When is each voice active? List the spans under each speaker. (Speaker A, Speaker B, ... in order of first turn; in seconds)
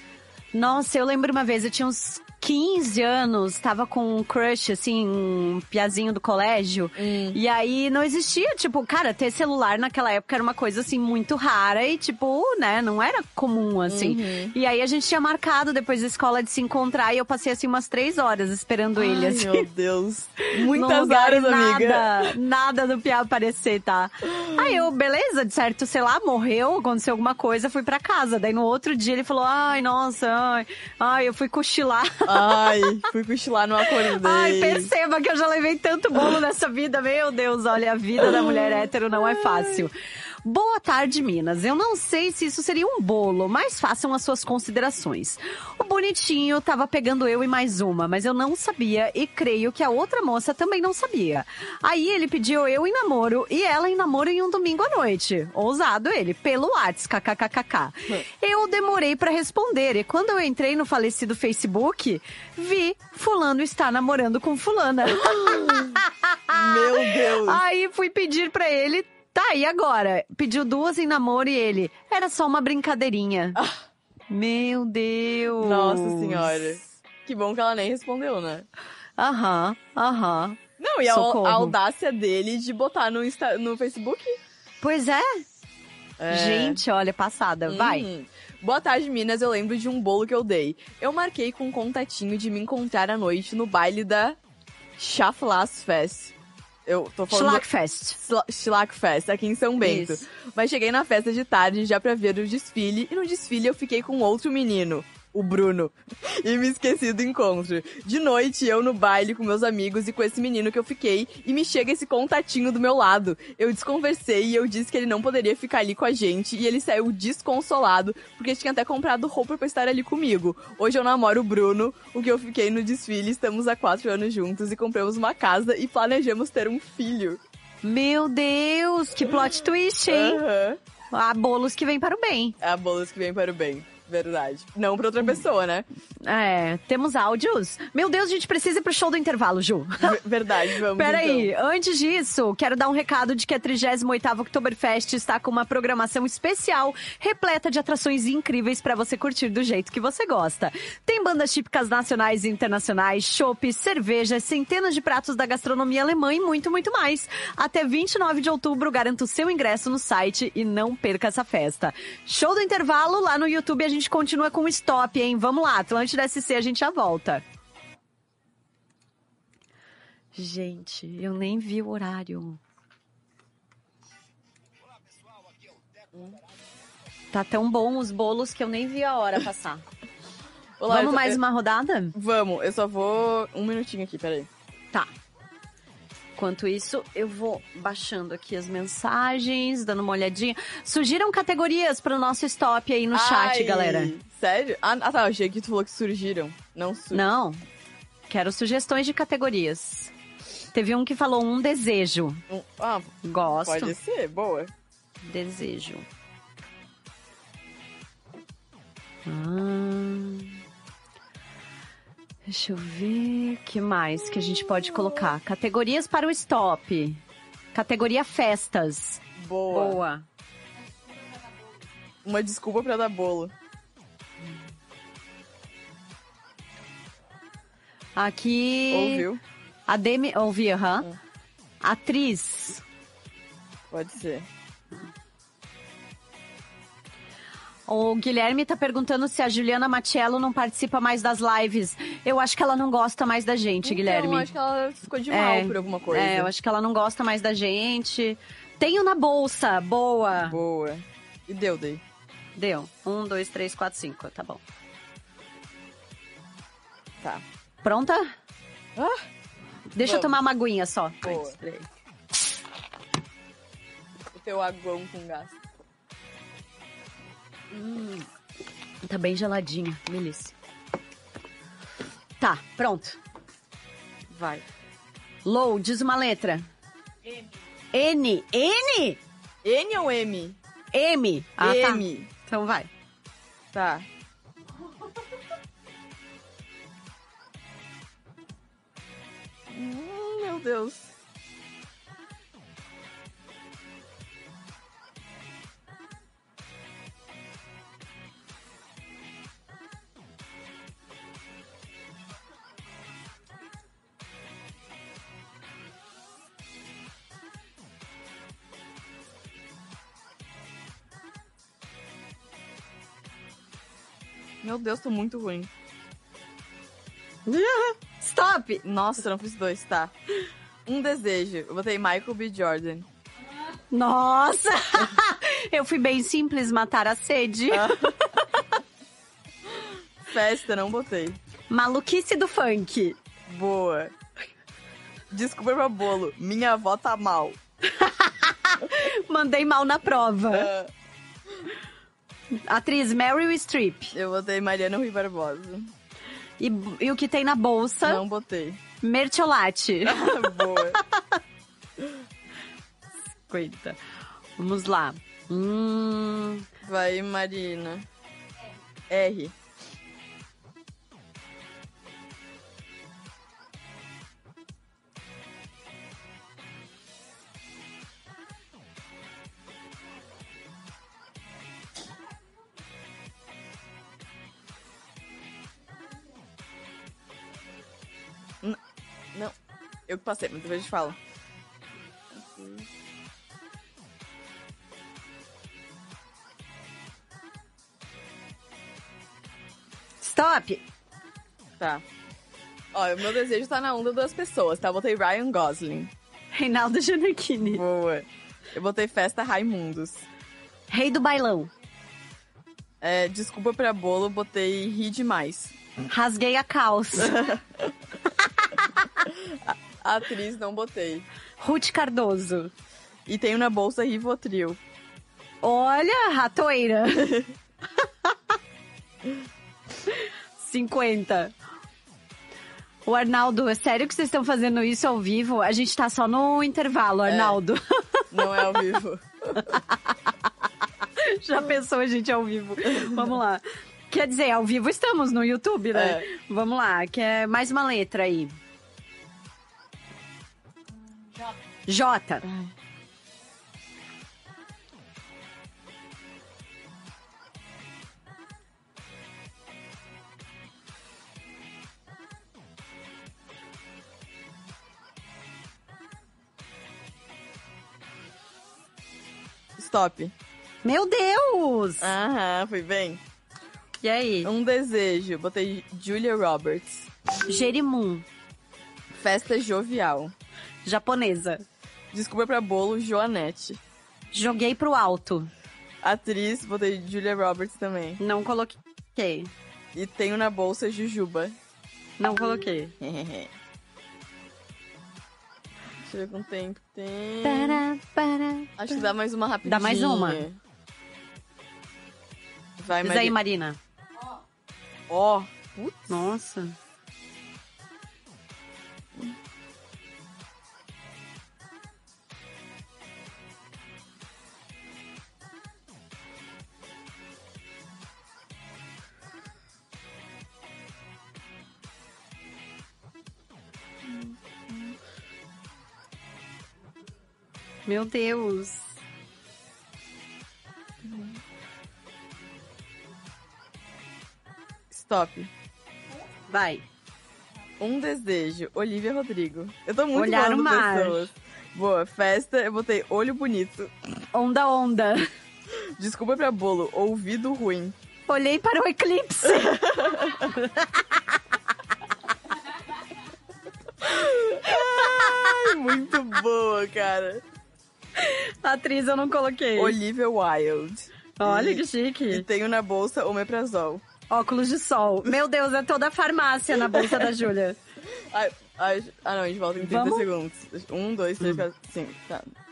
Speaker A: 0.5-19.7, 20.6-32.5, 34.2-39.9, 40.4-73.6, 74.3-76.8, 79.2-81.7, 84.8-85.4, 86.3-88.1, 97.3-98.2, 99.8-100.2, 127.8-130.4, 131.1-132.6, 136.2-140.2, 140.9-167.4, 170.3-172.6, 177.3-179.8, 180.9-182.1, 186.4-194.1, 197.1-197.6, 198.3-200.1, 200.7-202.4, 203.2-203.9, 205.2-206.0, 209.2-210.6, 212.5-217.2, 217.7-220.2, 228.2-229.2, 229.9-231.1, 231.8-232.8, 237.9-244.5, 245.3-250.6, 252.6-254.6, 257.8-258.3, 259.9-261.9, 267.7-268.3, 269.0-270.5, 272.4-273.2, 275.4-276.7, 277.9-279.2, 280.9-282.9, 317.5-318.8, 323.9-327.9, 331.7-333.2, 337.9-340.7, 342.6-344.1, 346.6-348.2, 349.0-351.2, 353.5-354.0, 354.6-356.6, 390.2-390.8, 396.5-397.8, 400.9-401.7, 406.1-407.3, 411.6-412.7, 415.6-417.4, 420.6-421.5, 423.1-428.2, 431.2-438.5, 441.9-442.4, 460.8-462.1, 464.0-464.5, 467.5-468.2, 470.8-471.6, 474.3-475.5, 478.2-479.5, 482.2-482.9, 487.4-489.0, 489.6-490.4, 493.0-493.8, 496.1-496.8, 517.9-519.0, 526.5-526.8, 530.1-531.2, 534.3-535.3, 538.3-540.9, 544.7-545.1, 548.2-550.0, 551.4-552.4, 554.3-557.8, 559.8-560.2
Speaker B: 7.0-7.4, 13.9-14.5, 18.9-22.3, 24.3-24.9, 32.2-34.9, 38.2-39.8, 65.2-66.0, 66.5-67.6, 75.6-78.7, 80.8-84.4, 86.2-86.8, 87.7-94.4, 95.0-96.3, 96.8-97.6, 98.2-127.4, 130.1-130.8, 132.6-135.9, 140.0-141.5, 180.8-181.4, 182.1-184.5, 193.1-197.2, 202.5-204.7, 219.4-220.0, 222.2-223.5, 228.9-229.4, 233.9-234.4, 243.8-246.5, 250.4-252.0, 258.9-259.2, 260.0-260.4, 261.2-261.6, 264.4-265.6, 274.3-274.6, 279.6-280.6, 281.6-282.3, 283.7-284.1, 289.7-291.1, 314.6-315.7, 318.8-320.1, 320.9-323.1, 327.7-328.1, 330.3-331.4, 333.5-334.1, 335.3-337.6, 340.5-340.9, 344.1-345.9, 348.0-348.8, 350.0-351.0, 356.8-358.0, 359.1-359.5, 380.1-381.2, 382.3-382.8, 392.9-396.1, 397.6-400.3, 403.0-405.7, 407.2-407.6, 409.6-411.2, 413.3-414.8, 427.3-427.6, 428.3-429.8, 435.9-436.2, 442.4-442.7, 459.8-460.3, 462.0-463.2, 464.4-467.1, 469.2-470.3, 472.1-473.8, 476.0-478.2, 479.9-481.5, 483.0-483.5, 486.0-487.8, 488.8-490.6, 492.8-493.4, 495.1-496.1, 524.9-525.5, 527.8-533.9, 536.0-537.9, 539.6-540.3, 544.0-547.4, 549.8-554.0, 556.9-557.3, 558.3-562.5